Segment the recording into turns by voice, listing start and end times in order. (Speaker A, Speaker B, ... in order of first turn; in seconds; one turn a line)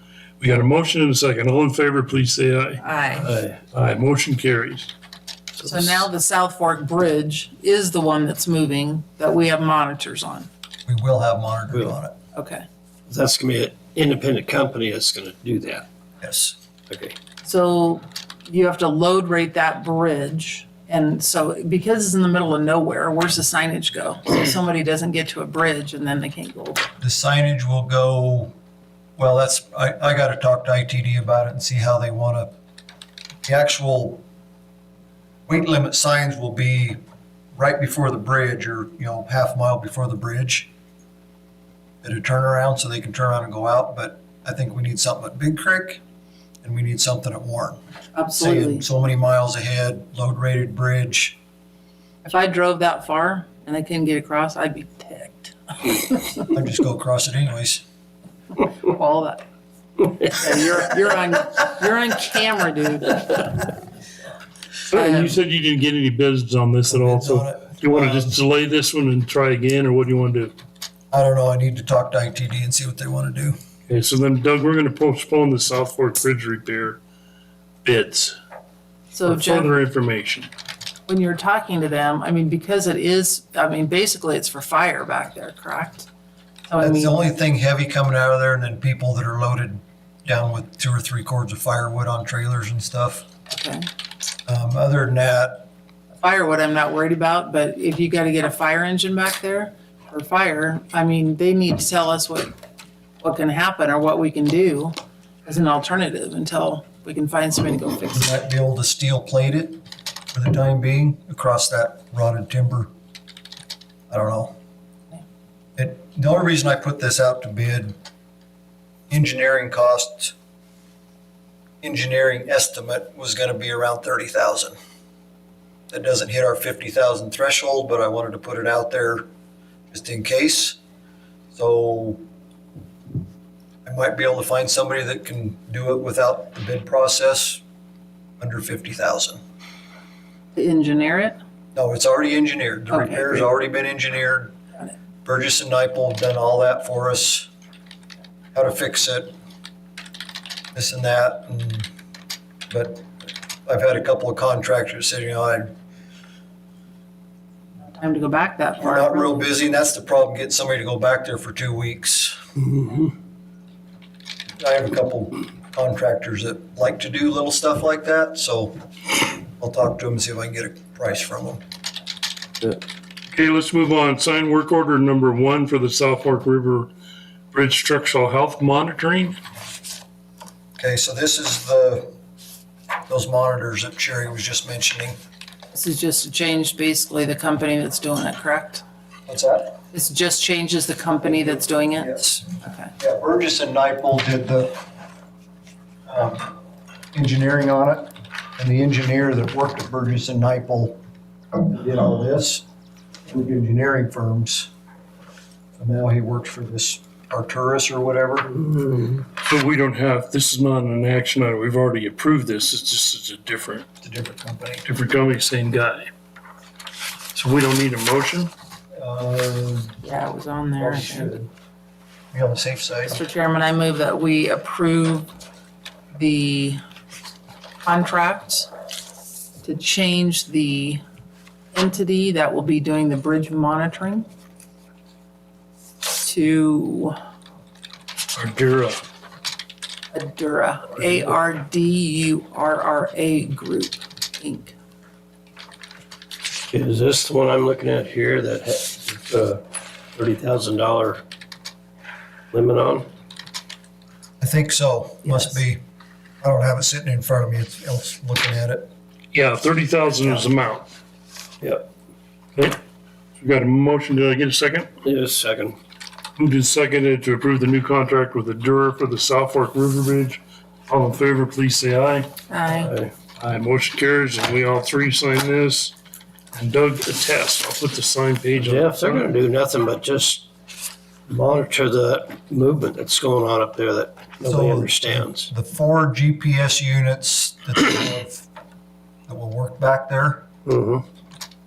Speaker A: 0.4-2.8
Speaker B: 2.8-3.3
Speaker C: 3.2-3.6
Speaker A: 3.7-4.9
Speaker B: 5.6-10.5
Speaker C: 5.8-6.0
Speaker D: 10.9-12.2
Speaker B: 12.3-12.7
Speaker C: 13.1-15.9
Speaker D: 16.2-16.6
Speaker C: 16.9-17.1
Speaker B: 17.4-26.9
Speaker D: 27.0-28.5
Speaker D: 29.2-32.5
Speaker D: 33.5-34.2
Speaker D: 35.5-37.0
Speaker D: 37.5-40.7
Speaker D: 42.0-46.0
Speaker D: 46.6-47.8
Speaker B: 48.1-48.9
Speaker D: 48.4-51.4
Speaker B: 52.2-56.5
Speaker D: 56.5-57.8
Speaker B: 58.6-59.4
Speaker B: 60.2-63.7
Speaker A: 64.9-70.5
Speaker B: 64.9-65.4
Speaker D: 66.9-68.4
Speaker D: 71.1-73.6
Speaker A: 73.9-77.0
Speaker A: 77.8-78.4
Speaker B: 79.1-79.7
Speaker A: 79.3-80.5
Speaker B: 81.1-86.1
Speaker B: 86.7-87.2
Speaker D: 86.8-93.3
Speaker B: 93.5-93.9
Speaker D: 94.5-95.7
Speaker B: 96.2-102.5
Speaker B: 103.2-108.4
Speaker D: 108.1-112.9
Speaker D: 114.1-114.5
Speaker D: 115.8-118.0
Speaker D: 119.1-120.3
Speaker D: 121.8-124.8
Speaker D: 125.9-129.3
Speaker D: 129.9-130.8
Speaker D: 131.5-132.2
Speaker D: 133.8-137.6
Speaker D: 138.4-139.4
Speaker B: 140.6-141.4
Speaker D: 141.8-144.6
Speaker B: 142.9-143.5
Speaker D: 145.2-147.5
Speaker D: 148.5-149.3
Speaker D: 150.7-151.9
Speaker D: 152.7-153.1
Speaker D: 153.7-155.7
Speaker B: 158.0-159.4
Speaker D: 158.8-162.4
Speaker C: 162.8-163.0
Speaker D: 164.6-171.6
Speaker A: 173.3-176.9
Speaker A: 177.5-179.4
Speaker D: 180.8-182.1
Speaker D: 183.1-185.2
Speaker B: 185.7-188.8
Speaker D: 189.3-189.8
Speaker B: 189.9-192.9
Speaker D: 192.0-192.4
Speaker D: 193.0-194.8
Speaker D: 196.1-196.6
Speaker D: 197.1-201.0
Speaker D: 201.6-202.6
Speaker D: 203.3-204.7
Speaker D: 205.8-208.5
Speaker C: 208.5-209.2
Speaker A: 209.4-213.9
Speaker D: 214.0-214.9
Speaker A: 214.8-216.1
Speaker A: 217.3-218.5
Speaker D: 219.0-220.0
Speaker B: 220.0-221.3
Speaker D: 220.8-221.5
Speaker D: 222.3-223.2
Speaker B: 223.1-225.3
Speaker B: 226.1-226.8
Speaker B: 227.8-228.7
Speaker B: 229.6-231.0
Speaker B: 231.7-234.3
Speaker B: 236.2-237.2
Speaker A: 238.3-239.0
Speaker B: 240.1-244.8
Speaker C: 246.7-249.6
Speaker C: 250.2-251.2
Speaker C: 252.5-253.1
Speaker D: 254.4-255.8
Speaker B: 255.2-255.6
Speaker D: 256.4-258.9
Speaker A: 259.3-260.9
Speaker A: 263.4-264.9
Speaker C: 265.0-265.8
Speaker A: 266.4-272.3
Speaker B: 272.5-272.9
Speaker C: 272.7-273.1
Speaker A: 273.4-275.9
Speaker A: 276.5-279.3
Speaker C: 278.6-280.5
Speaker C: 281.3-285.5
Speaker D: 284.4-288.5
Speaker D: 289.3-290.5
Speaker C: 290.7-291.1